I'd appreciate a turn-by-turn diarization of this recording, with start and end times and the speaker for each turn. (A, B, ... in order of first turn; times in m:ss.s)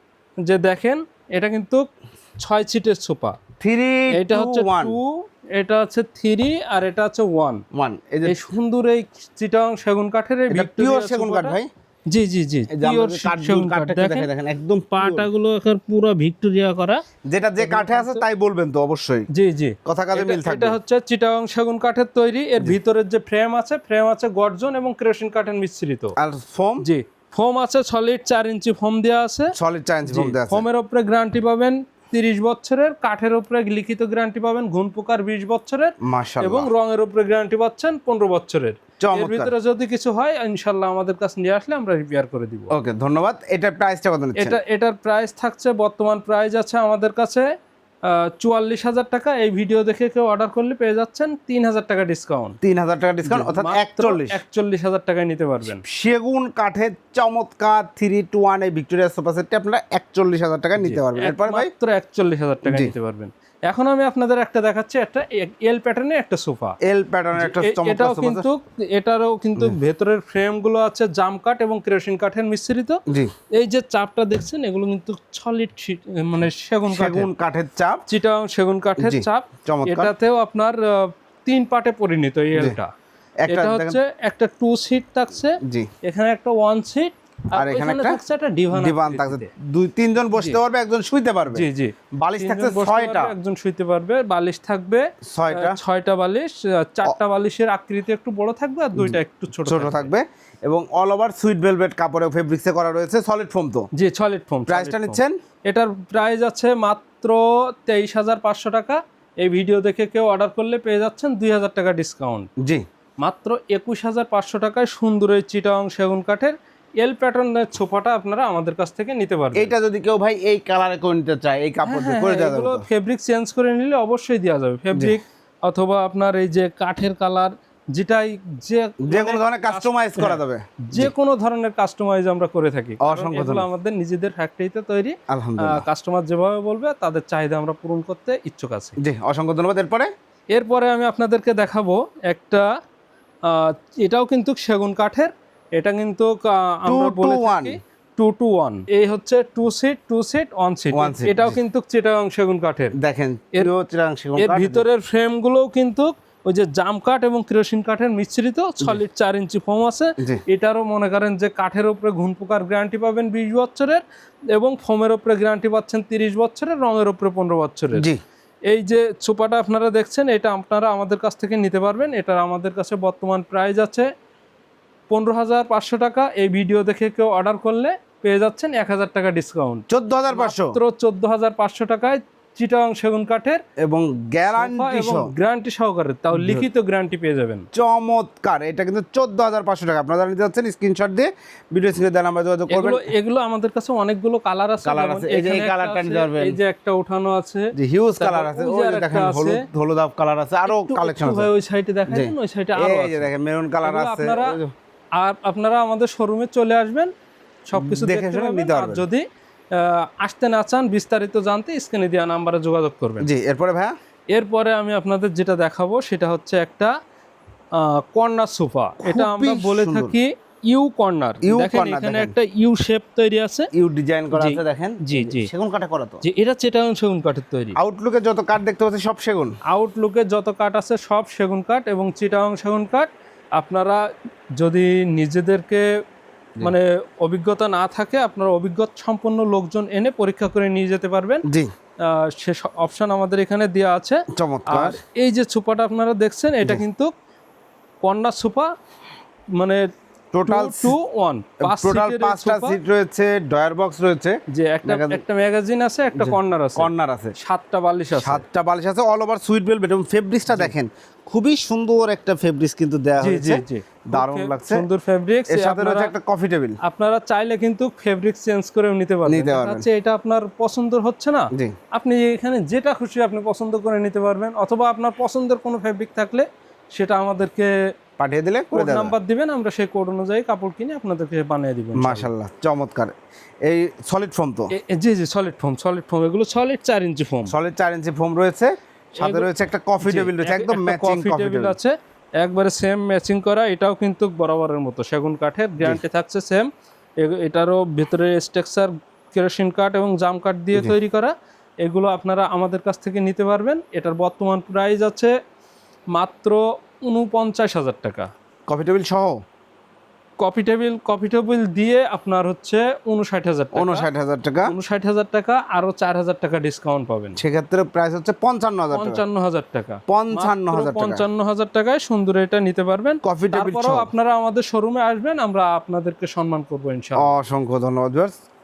0:00.4-0:01.8 A
0:02.4-0:03.4 A
0:03.6-0:05.0 B
0:04.1-0:07.6 A
0:07.7-0:08.4 B
0:08.2-0:11.6 A
0:10.5-0:11.7 B
0:12.1-0:14.3 A
0:12.7-0:15.3 B
0:14.9-0:17.0 A
0:17.2-0:19.3 B
0:17.6-0:18.2 A
0:19.3-0:26.1 A
0:19.8-0:20.8 B
0:26.2-0:26.8 B
0:26.8-0:29.5 A
0:29.5-0:30.6 B
0:30.1-0:42.7 A
0:36.0-0:36.7 B
0:39.0-0:39.5 B
0:42.7-0:44.6 B
0:44.4-0:47.5 A
0:48.0-0:52.6 A
0:52.6-0:54.4 B
0:53.2-0:55.8 A
0:55.8-1:01.7 B
1:00.8-1:06.8 A
1:02.6-1:02.9 B
1:06.8-1:08.5 B
1:07.4-1:13.0 A
1:13.1-1:13.3 B
1:13.5-1:17.3 A
1:16.9-1:18.0 B
1:18.1-1:22.9 A
1:19.0-1:20.1 B
1:23.4-1:24.0 B
1:23.5-1:29.5 A
1:25.6-1:25.9 B
1:27.6-1:28.2 B
1:28.7-1:31.6 B
1:31.5-1:40.1 A
1:32.2-1:33.3 B
1:35.3-1:35.8 B
1:39.0-1:43.9 B
1:44.0-1:52.5 A
1:44.7-1:45.4 B
1:53.2-1:59.7 A
1:59.5-2:02.8 B
2:01.8-2:19.0 A
2:09.0-2:11.1 B
2:13.0-2:13.7 B
2:15.3-2:15.8 B
2:19.0-2:20.1 B
2:20.5-2:22.7 A
2:23.4-2:32.9 A
2:26.9-2:27.7 B
2:30.9-2:31.6 B
2:33.0-2:34.8 B
2:34.4-2:44.0 A
2:44.5-2:48.0 A
2:48.0-2:48.2 B
2:48.7-2:54.1 A
2:55.1-3:03.6 A
2:59.9-3:00.8 B
3:03.8-3:05.3 B
3:04.5-3:07.6 A
3:06.3-3:06.6 B
3:07.7-3:13.1 B
3:12.7-3:19.6 A
3:14.8-3:16.6 B
3:17.8-3:21.5 B
3:20.7-3:23.3 A
3:22.1-3:24.7 B
3:23.8-3:24.6 A
3:25.2-3:27.1 A
3:27.7-3:33.3 A
3:27.8-3:29.0 B
3:33.2-3:33.9 B
3:34.3-3:36.9 A
3:37.8-3:43.7 A
3:39.0-3:40.2 B
3:41.4-3:42.3 B
3:43.7-3:46.2 B
3:44.3-3:45.5 A
3:46.2-3:47.8 A
3:47.8-3:49.5 B
3:49.7-3:54.0 A
3:54.6-3:55.8 A
3:56.6-4:01.4 A
4:01.4-4:01.7 B
4:02.1-4:07.1 A
4:04.3-4:05.0 B
4:08.0-4:08.7 A
4:09.6-4:09.8 A
4:10.3-4:10.9 B
4:10.4-4:12.8 A
4:11.6-4:15.2 B
4:14.5-4:18.4 A
4:16.2-4:17.3 B
4:18.1-4:24.8 B
4:23.2-4:26.1 A
4:25.5-4:26.8 B
4:26.8-4:37.8 A
4:29.3-4:29.8 B
4:38.2-4:39.1 B
4:38.7-4:42.3 A
4:42.0-4:44.7 B
4:44.7-4:47.5 A
4:47.5-4:51.8 B
4:49.2-4:49.5 A
4:50.0-4:56.7 A
4:57.2-5:05.3 A
5:06.1-5:08.3 A
5:08.7-5:09.4 B
5:10.4-5:14.0 A
5:13.7-5:14.7 B
5:14.6-5:17.4 A
5:17.4-5:19.2 B
5:18.9-5:27.4 A
5:20.1-5:21.2 B
5:23.2-5:24.1 B
5:27.2-5:28.4 B